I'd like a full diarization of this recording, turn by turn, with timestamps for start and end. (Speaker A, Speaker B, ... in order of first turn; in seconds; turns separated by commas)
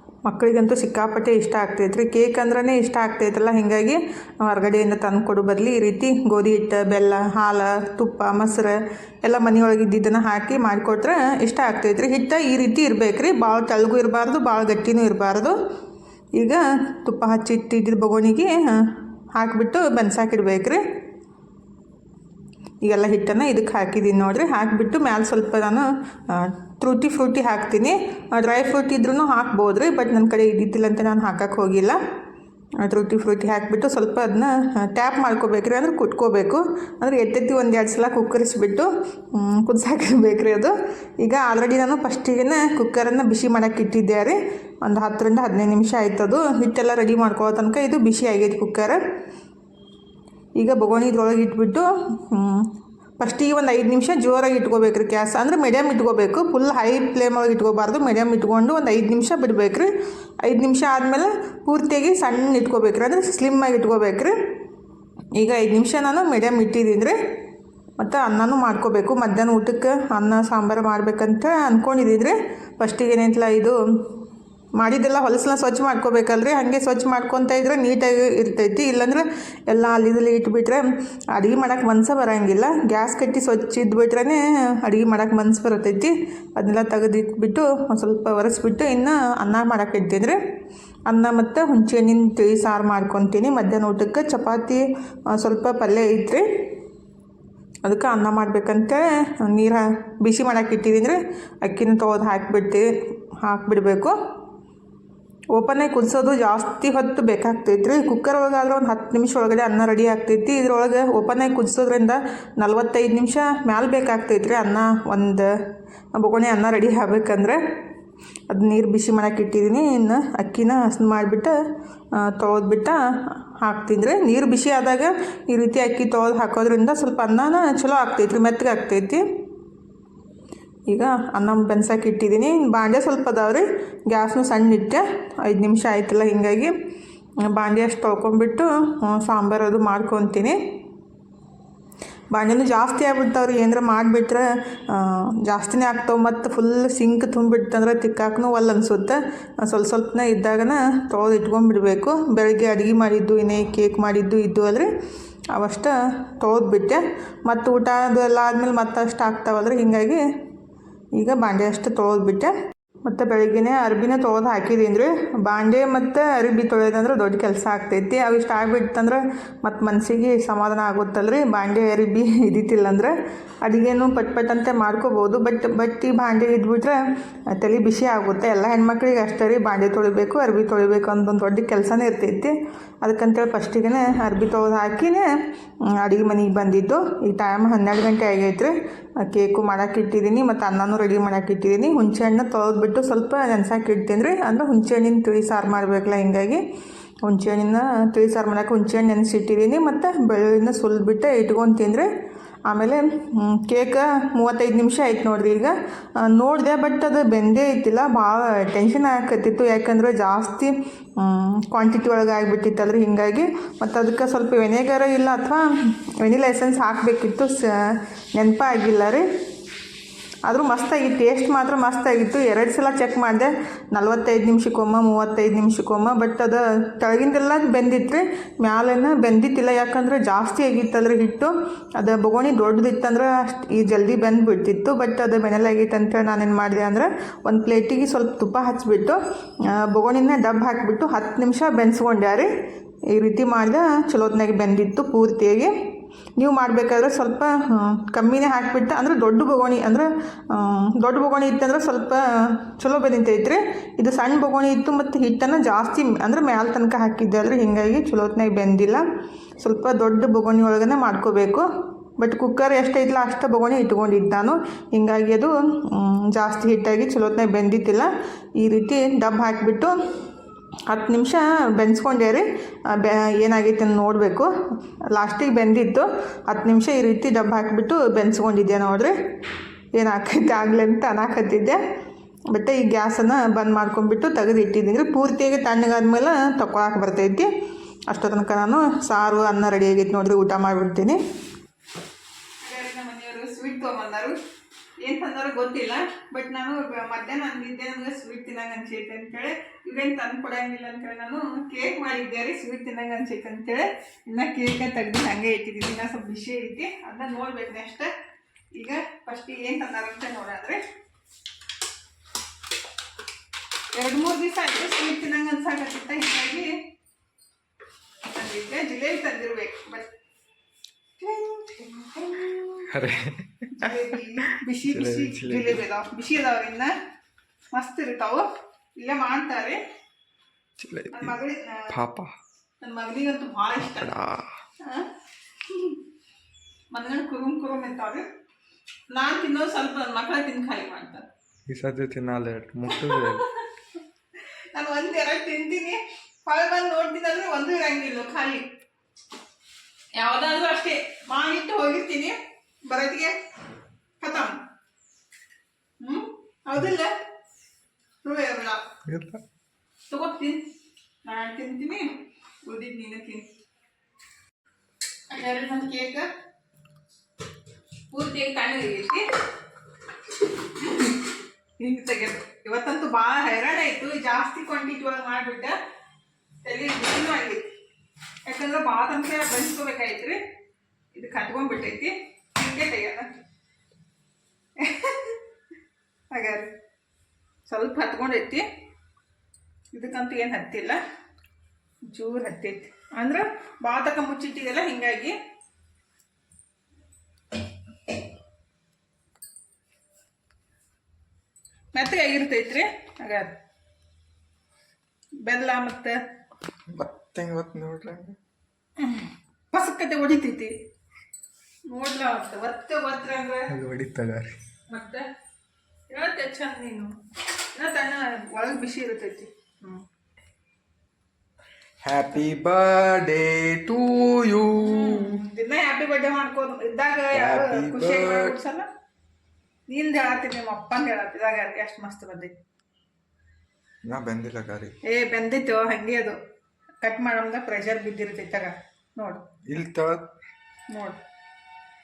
Speaker A: 0.2-15.6, Speaker A: 16.3-21.0, Speaker A: 22.8-32.0, Speaker A: 32.8-49.0, Speaker A: 50.5-59.9, Speaker A: 60.4-64.3, Speaker A: 65.3-67.2, Speaker A: 68.0-74.2, Speaker A: 74.7-90.4, Speaker A: 91.1-96.7, Speaker A: 97.8-104.2, Speaker A: 105.5-115.5, Speaker A: 116.1-117.6, Speaker A: 118.5-121.6, Speaker A: 122.1-129.3, Speaker A: 130.9-136.7, Speaker A: 137.4-140.6, Speaker A: 142.3-154.9, Speaker A: 155.5-160.2, Speaker A: 161.1-196.6, Speaker A: 197.2-202.1, Speaker A: 202.7-219.2, Speaker A: 220.4-242.5, Speaker A: 243.1-245.7, Speaker A: 246.3-259.0, Speaker A: 259.6-270.0, Speaker A: 270.9-274.5, Speaker A: 275.1-279.1, Speaker A: 279.9-281.8, Speaker A: 282.5-287.5, Speaker A: 288.1-291.2, Speaker A: 292.6-294.4, Speaker A: 295.0-308.1, Speaker A: 308.7-310.8, Speaker A: 313.9-316.8, Speaker A: 318.3-320.1, Speaker A: 321.2-322.8, Speaker B: 322.9-325.8, Speaker A: 323.8-326.9, Speaker A: 327.7-329.8, Speaker B: 330.8-331.3, Speaker A: 331.1-331.9, Speaker B: 331.9-332.3, Speaker A: 332.8-334.1, Speaker B: 333.8-334.6, Speaker A: 334.8-335.1, Speaker A: 335.6-336.0, Speaker A: 336.9-338.2, Speaker A: 339.1-341.3, Speaker B: 341.7-343.4, Speaker A: 342.9-343.6, Speaker A: 344.7-348.6, Speaker A: 350.1-353.4, Speaker A: 354.2-354.6, Speaker A: 356.0-357.1, Speaker A: 358.2-358.8, Speaker B: 359.0-359.4, Speaker A: 360.1-360.6, Speaker A: 361.2-363.4, Speaker A: 365.3-366.3, Speaker A: 368.1-369.2, Speaker A: 370.8-371.1, Speaker A: 371.8-375.8, Speaker A: 376.6-377.7, Speaker A: 378.4-380.4, Speaker A: 381.1-383.4, Speaker A: 384.8-385.4, Speaker A: 386.3-386.7, Speaker A: 387.6-388.7, Speaker A: 389.9-391.0, Speaker A: 392.1-395.4, Speaker A: 401.9-403.5, Speaker A: 405.4-406.2, Speaker B: 406.9-408.4, Speaker A: 409.0-410.8, Speaker A: 411.9-413.7, Speaker B: 413.7-414.6, Speaker A: 414.9-415.3, Speaker A: 416.1-417.2, Speaker A: 417.7-420.0, Speaker B: 422.0-425.4, Speaker A: 424.7-428.9, Speaker B: 427.3-428.6, Speaker A: 429.9-432.6, Speaker B: 434.0-435.0, Speaker A: 435.0-436.4, Speaker A: 437.0-439.4, Speaker B: 439.6-440.3, Speaker A: 440.9-441.2